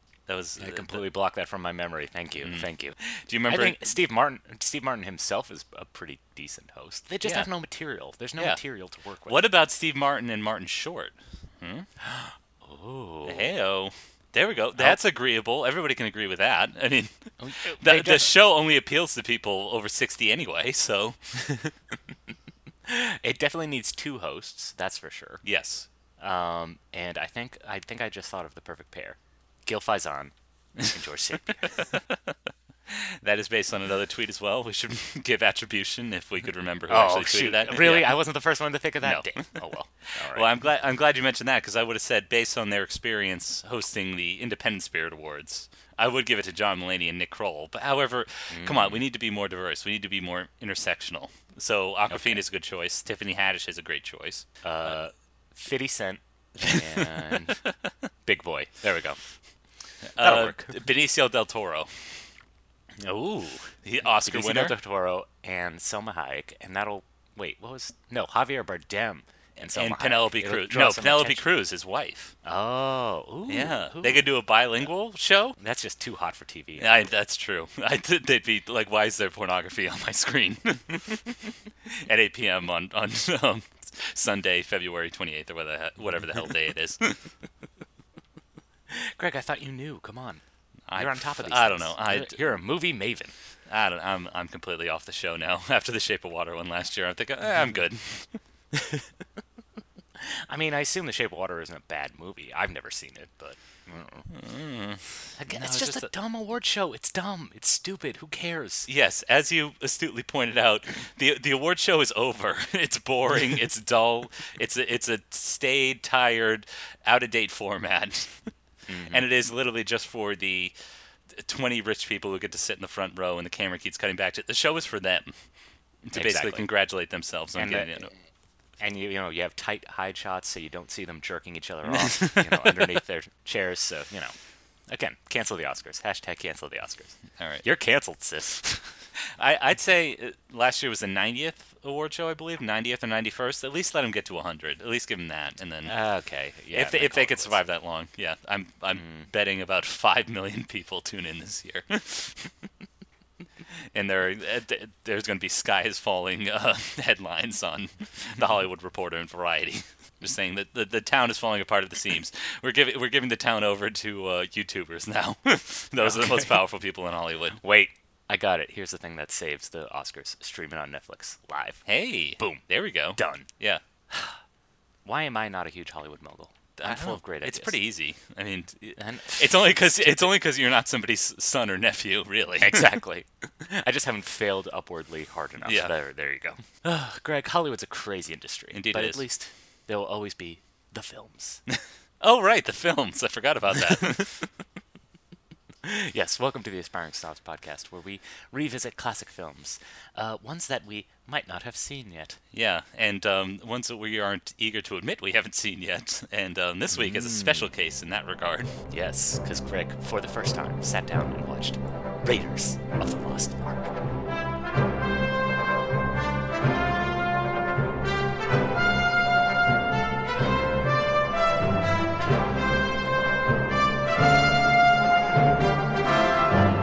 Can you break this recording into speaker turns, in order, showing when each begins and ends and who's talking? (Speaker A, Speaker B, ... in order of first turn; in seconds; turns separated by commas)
Speaker A: 0.3-1.1, Speaker B: 0.6-3.0, Speaker A: 2.4-3.8, Speaker B: 3.5-9.4, Speaker A: 7.2-7.5, Speaker A: 9.2-11.9, Speaker B: 12.0-13.5, Speaker A: 13.2-21.2, Speaker B: 14.8-15.0, Speaker B: 17.4-18.3, Speaker B: 22.9-25.4, Speaker A: 25.4-25.9, Speaker B: 26.2-31.9, Speaker A: 31.9-32.3, Speaker A: 32.9-38.2, Speaker B: 36.9-40.5, Speaker A: 39.0-55.0, Speaker B: 48.5-49.0, Speaker B: 52.1-52.4, Speaker B: 54.6-57.6, Speaker A: 56.6-57.9, Speaker B: 58.2-59.2, Speaker B: 60.1-60.8, Speaker A: 60.2-62.3, Speaker B: 63.0-71.6, Speaker A: 63.8-64.8, Speaker A: 69.6-72.3, Speaker B: 72.4-74.9, Speaker A: 73.5-75.6, Speaker B: 75.6-77.0, Speaker A: 76.8-81.3, Speaker A: 82.0-87.2, Speaker B: 88.9-90.4, Speaker A: 90.9-92.4, Speaker B: 90.9-93.3, Speaker A: 93.7-98.4, Speaker B: 100.2-104.3, Speaker A: 104.3-106.1, Speaker B: 105.3-108.9, Speaker A: 108.9-118.5, Speaker B: 118.9-119.2, Speaker A: 119.1-120.7, Speaker A: 121.3-125.4, Speaker A: 126.0-128.1, Speaker B: 126.1-126.7, Speaker B: 127.5-128.1, Speaker B: 128.8-134.3, Speaker A: 131.9-133.0, Speaker B: 134.9-139.0, Speaker A: 137.4-137.6, Speaker A: 139.3-145.9, Speaker B: 145.8-147.6, Speaker A: 146.7-152.5, Speaker B: 148.9-149.3, Speaker A: 153.9-167.6, Speaker B: 165.9-166.6, Speaker B: 167.6-173.5, Speaker A: 171.8-173.8, Speaker B: 174.1-174.3, Speaker B: 175.0-177.8, Speaker A: 176.8-182.8, Speaker B: 178.9-180.3, Speaker B: 182.6-191.6, Speaker A: 185.6-185.9, Speaker A: 188.7-189.2, Speaker A: 192.2-194.5, Speaker B: 195.8-202.4, Speaker A: 202.5-208.8, Speaker B: 206.9-207.7, Speaker B: 208.9-214.0